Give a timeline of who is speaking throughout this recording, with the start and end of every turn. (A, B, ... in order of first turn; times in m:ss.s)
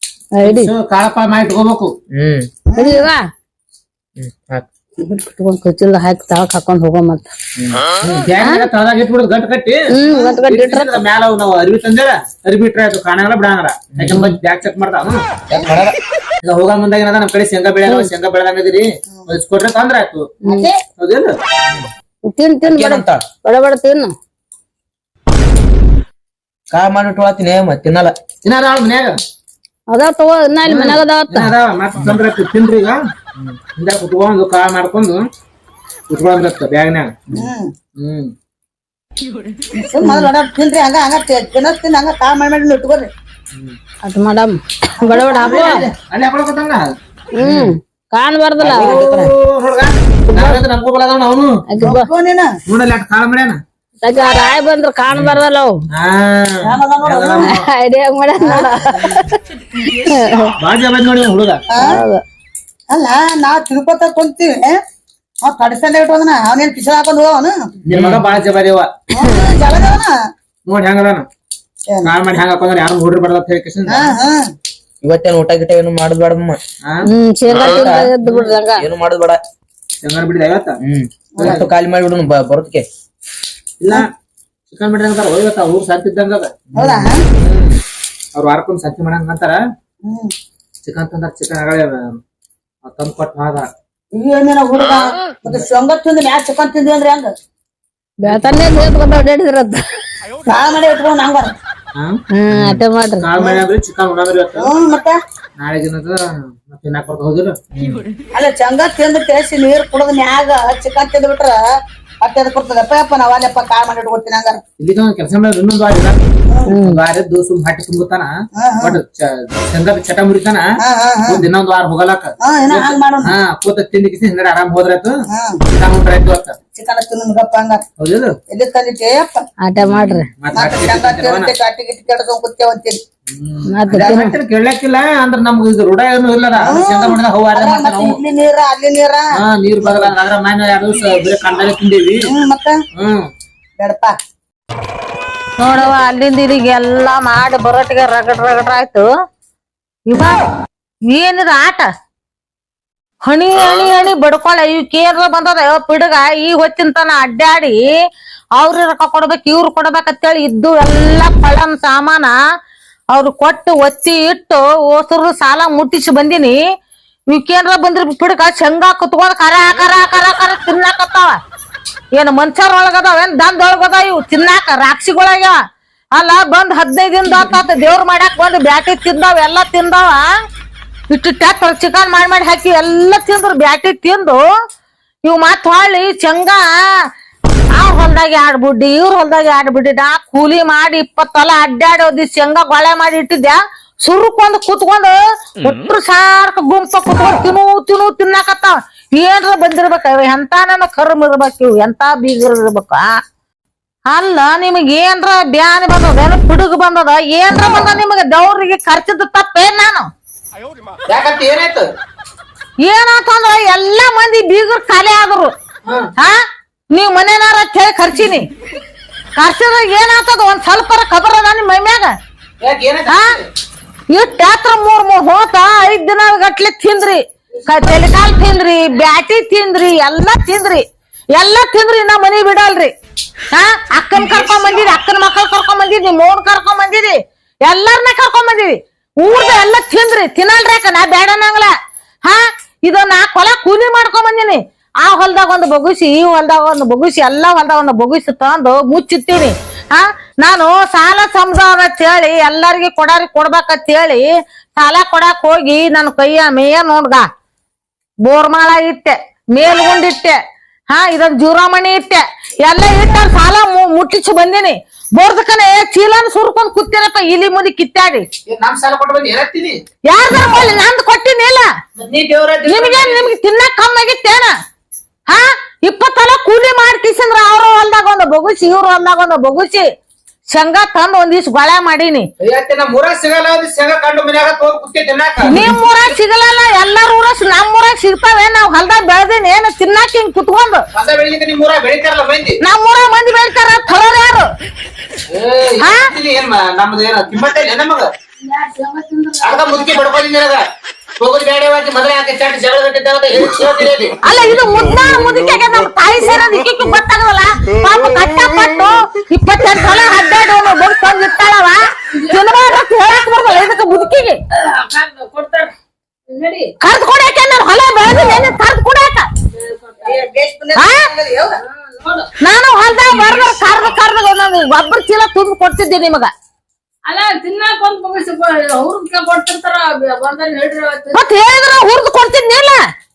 0:00.4-0:00.7 A
0:00.4-0:01.9 B
0:02.1-0:02.5 C
0:02.7-0:03.1 D
0:02.8-0:03.2 A
0:04.2-0:04.7 C
0:05.0-0:07.3 A
0:07.6-0:07.8 C
0:08.0-0:15.2 B
0:08.4-0:08.7 A
0:09.9-0:11.0 A
0:14.0-0:14.3 C
0:15.5-0:15.9 C
0:16.4-0:20.2 B
0:20.4-0:20.7 A
0:20.5-0:20.7 D
0:21.0-0:21.4 B
0:22.3-0:24.2 A
0:22.7-0:23.2 C
0:26.7-0:28.2 C
0:28.4-0:29.2 B
0:29.9-0:31.5 A
0:30.6-0:33.0 B
0:33.8-0:35.3 B
0:36.1-0:37.2 B
0:37.3-0:37.7 D
0:38.0-0:38.3 B
0:39.8-0:43.1 D
0:44.0-0:45.9 A
0:45.0-0:45.7 D
0:45.4-0:46.8 B
0:47.4-0:48.9 A
0:48.6-0:51.6 B
0:48.7-0:49.3 D
0:50.3-0:50.6 A
0:51.7-0:52.1 A
0:51.8-0:52.6 D
0:52.7-0:53.6 B
0:54.0-0:55.8 A
0:55.1-0:55.4 B
0:55.9-0:57.6 B
0:56.6-0:57.5 D
0:57.5-0:59.3 A
0:58.4-0:59.0 D
1:00.0-1:00.6 A
1:00.6-1:01.6 B
1:01.7-1:02.0 D
1:01.9-1:02.2 A
1:02.9-1:04.8 D
1:05.4-1:07.6 D
1:07.9-1:08.9 B
1:07.9-1:08.2 C
1:09.1-1:10.1 D
1:10.7-1:11.3 B
1:11.9-1:12.1 D
1:12.0-1:14.2 B
1:13.9-1:14.5 D
1:15.0-1:16.6 C
1:17.1-1:18.9 A
1:17.6-1:18.1 C
1:17.6-1:18.5 B
1:18.8-1:19.4 C
1:20.0-1:20.8 B
1:20.8-1:22.9 C
1:21.4-1:21.6 D
1:21.4-1:21.7 B
1:23.8-1:24.1 B
1:24.7-1:26.5 B
1:26.8-1:27.2 D
1:26.8-1:27.0 C
1:27.4-1:27.8 B
1:28.4-1:29.6 B
1:30.0-1:30.3 D
1:30.8-1:32.2 B
1:32.8-1:33.7 B
1:34.1-1:37.3 D
1:38.2-1:39.8 A
1:38.3-1:38.9 B
1:40.5-1:41.5 D
1:42.3-1:43.3 A
1:43.2-1:44.7 B
1:43.4-1:43.6 D
1:44.6-1:45.2 D
1:45.6-1:47.6 B
1:47.7-1:48.0 C
1:48.3-1:51.6 D
1:52.2-1:54.6 D
1:54.8-1:56.2 B
1:56.5-1:56.8 D
1:56.8-2:00.6 B
1:58.6-1:59.0 D
2:00.8-2:01.4 D
2:01.3-2:06.6 B
2:02.4-2:03.3 D
2:05.3-2:05.6 D
2:06.7-2:07.8 D
2:08.0-2:08.3 B
2:08.5-2:09.4 D
2:09.6-2:10.3 A
2:09.9-2:11.5 B
2:10.5-2:13.0 D
2:13.3-2:18.2 B
2:13.7-2:14.4 A
2:13.9-2:14.2 D
2:16.6-2:19.2 D
2:19.4-2:22.2 B
2:19.8-2:20.1 D
2:22.2-2:22.8 D
2:23.0-2:23.3 B
2:23.8-2:24.2 D
2:25.6-2:29.1 E
2:30.1-2:30.4 E
2:31.1-2:31.9 E
2:33.2-2:37.9 E
2:38.6-2:42.3 E
2:43.1-2:46.6 E
2:47.3-2:51.4 E
2:52.1-2:55.6 E
2:56.2-3:00.3 E
3:01.1-3:04.4 E
3:05.2-3:06.9 E
3:07.8-3:23.2 E
3:24.1-3:30.1 E
3:31.1-3:31.9 B
3:32.8-3:35.5 E
3:36.9-3:38.5 E
3:39.4-3:42.1 E
3:42.6-3:43.4 B
3:44.1-3:50.8 E
3:47.6-3:48.1 D
3:51.4-3:52.9 E
3:53.5-4:17.2 E
4:18.2-4:20.4 E
4:20.9-4:28.3 E
4:28.5-4:29.8 B
4:30.1-4:31.7 E
4:32.0-4:33.3 B
4:32.7-4:34.5 E
4:35.3-4:39.9 E
4:40.5-4:42.3 E
4:42.4-4:45.7 B
4:45.5-4:50.8 E
4:51.0-4:52.6 B
4:52.6-4:54.5 E
4:55.3-4:58.1 B
4:55.8-4:56.1 E
4:58.4-5:00.0 A
4:59.4-5:00.6 B
5:01.2-5:04.2 B
5:04.2-5:14.4 E
5:12.1-5:12.4 A
5:14.5-5:15.7 A
5:16.3-5:16.7 A
5:16.8-5:19.3 E
5:19.7-5:20.2 A
5:20.1-5:21.5 D
5:22.0-5:22.3 A
5:22.4-5:26.3 E
5:27.1-5:31.2 A
5:31.1-5:32.8 E